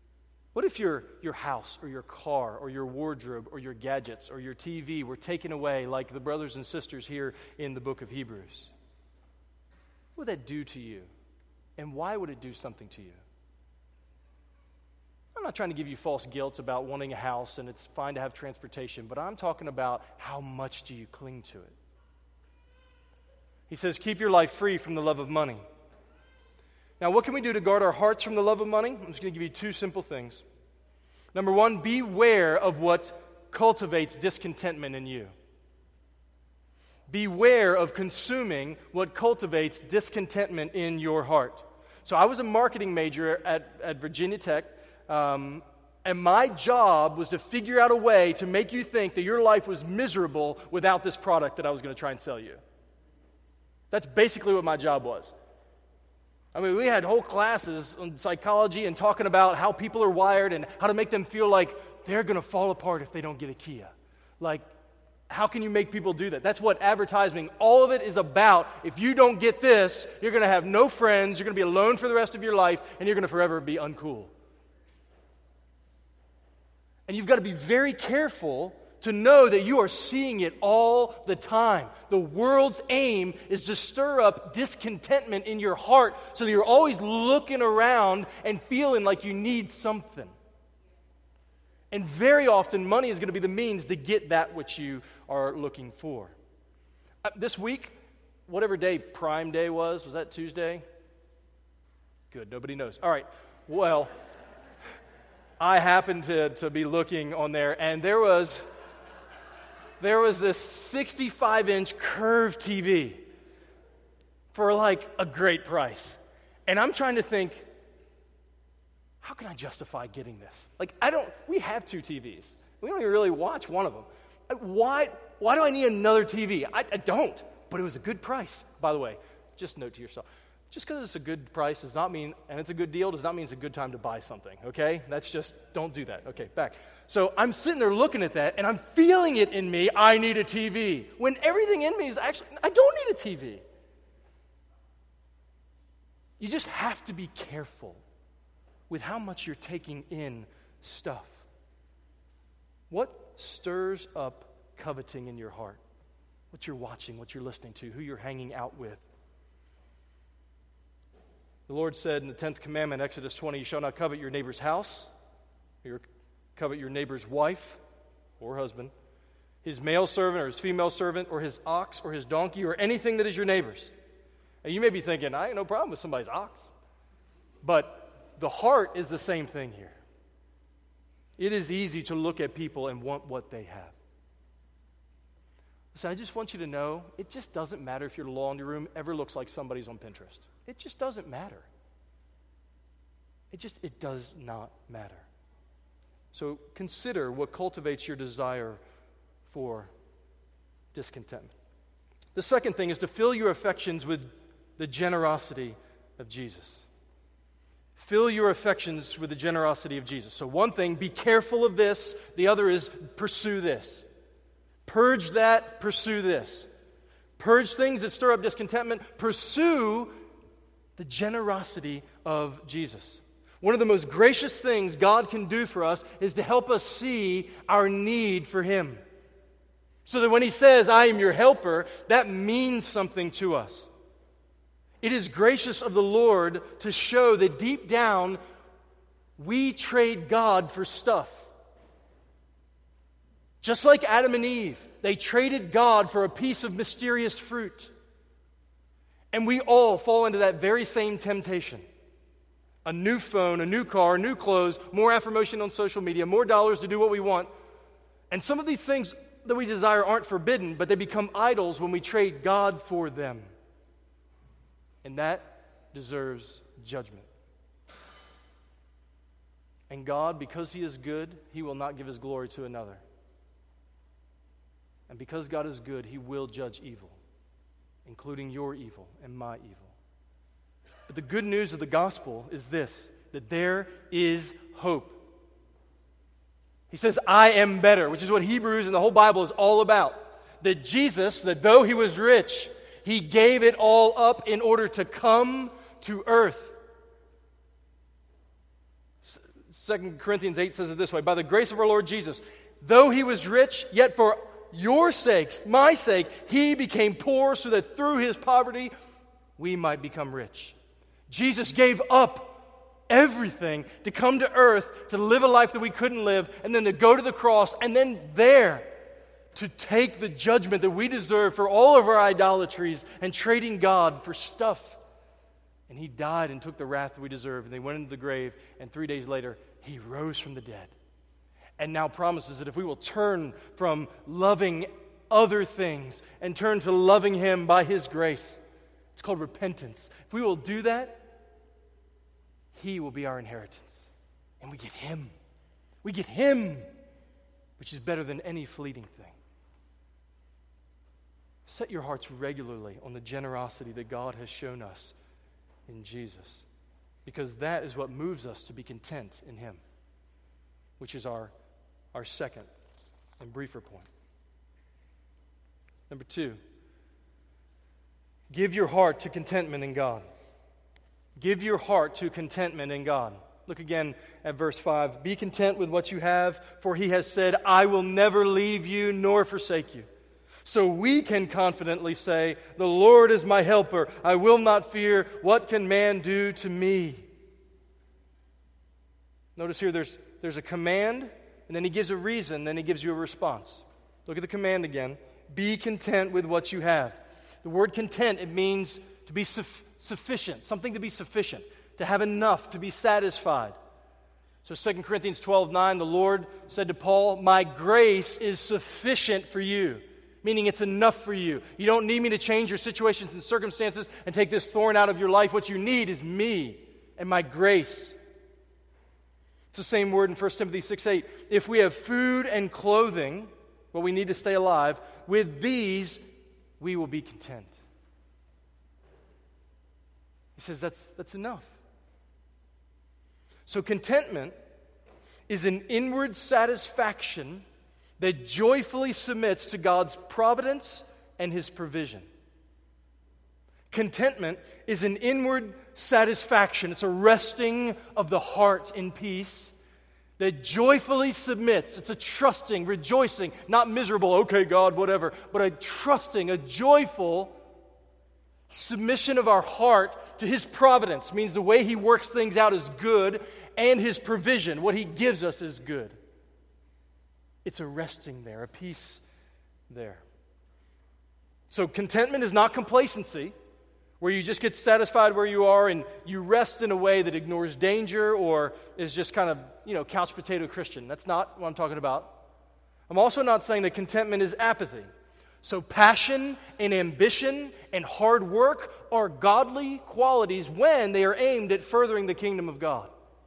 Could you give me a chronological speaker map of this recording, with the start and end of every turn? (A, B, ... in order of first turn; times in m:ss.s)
0:00.5-0:08.7 A
0:10.2-0:11.1 A
0:11.8-0:13.2 A
0:15.3-0:21.8 A
0:23.7-0:25.6 A
0:27.0-0:30.4 A
0:31.3-0:35.3 A
0:37.1-0:52.6 A
0:53.9-0:55.3 A
0:56.5-1:04.6 A
1:05.3-1:14.3 A
1:17.1-1:30.3 A
1:31.9-1:36.3 A
1:37.3-1:37.9 A
1:38.5-1:40.8 A
1:42.3-1:44.1 A
1:45.6-1:48.6 A
1:50.0-1:53.2 A
1:54.5-1:57.7 A
1:59.2-2:23.6 A
2:26.4-2:28.0 A
2:28.9-2:31.4 A
2:32.9-2:35.8 A
2:36.5-2:39.0 A
2:41.7-2:45.1 A
2:46.6-2:47.8 A
2:48.4-2:48.9 A
2:49.6-2:53.9 A
2:54.6-2:56.7 A
2:57.6-3:00.0 A
3:01.4-3:04.0 A
3:05.9-3:11.7 A
3:13.5-3:15.2 A
3:16.3-3:18.8 A
3:19.4-3:19.9 A
3:20.9-3:21.5 A
3:22.3-3:26.9 A
3:28.0-3:34.0 A
3:34.8-3:36.7 A
3:37.4-3:40.1 A
3:41.0-3:49.0 A
3:50.0-3:53.9 A
3:55.0-3:58.4 A
3:59.4-4:01.5 A
4:03.6-4:07.9 A
4:09.3-4:11.8 A
4:12.8-4:17.5 A
4:18.3-4:23.5 A
4:25.0-4:27.3 A
4:29.9-4:33.0 A
4:35.1-4:37.2 A
4:38.0-4:39.9 A
4:41.1-4:45.2 A
4:46.9-4:56.8 A
4:59.2-5:08.9 A
5:09.6-5:10.8 A
5:11.3-5:18.9 A
5:19.5-5:25.0 A
5:25.9-5:30.9 A
5:31.8-5:38.6 A
5:39.2-5:41.2 A
5:42.7-5:44.1 A
5:44.6-5:45.3 A
5:46.0-5:46.9 A
5:47.8-5:49.4 A
5:51.6-5:55.1 A
5:55.9-5:56.6 A
5:57.2-5:59.8 A
6:01.0-6:01.5 A
6:02.1-6:02.7 A
6:03.4-6:04.1 A
6:06.1-6:06.6 A
6:08.5-6:10.2 A
6:11.4-6:20.1 A
6:20.6-6:27.2 A
6:29.6-6:43.8 A
6:44.6-6:58.2 A
6:59.7-7:06.2 A
7:06.8-7:07.8 A
7:10.6-7:11.8 A
7:13.7-7:14.6 A
7:15.5-7:17.6 A
7:18.2-7:22.3 A
7:23.9-7:29.7 A
7:30.4-7:37.5 A
7:38.7-7:46.2 A
7:47.6-7:49.2 A
7:49.9-7:50.2 A
7:51.7-7:53.5 A
7:54.2-8:02.3 A
8:03.1-8:05.1 A
8:05.6-8:13.1 A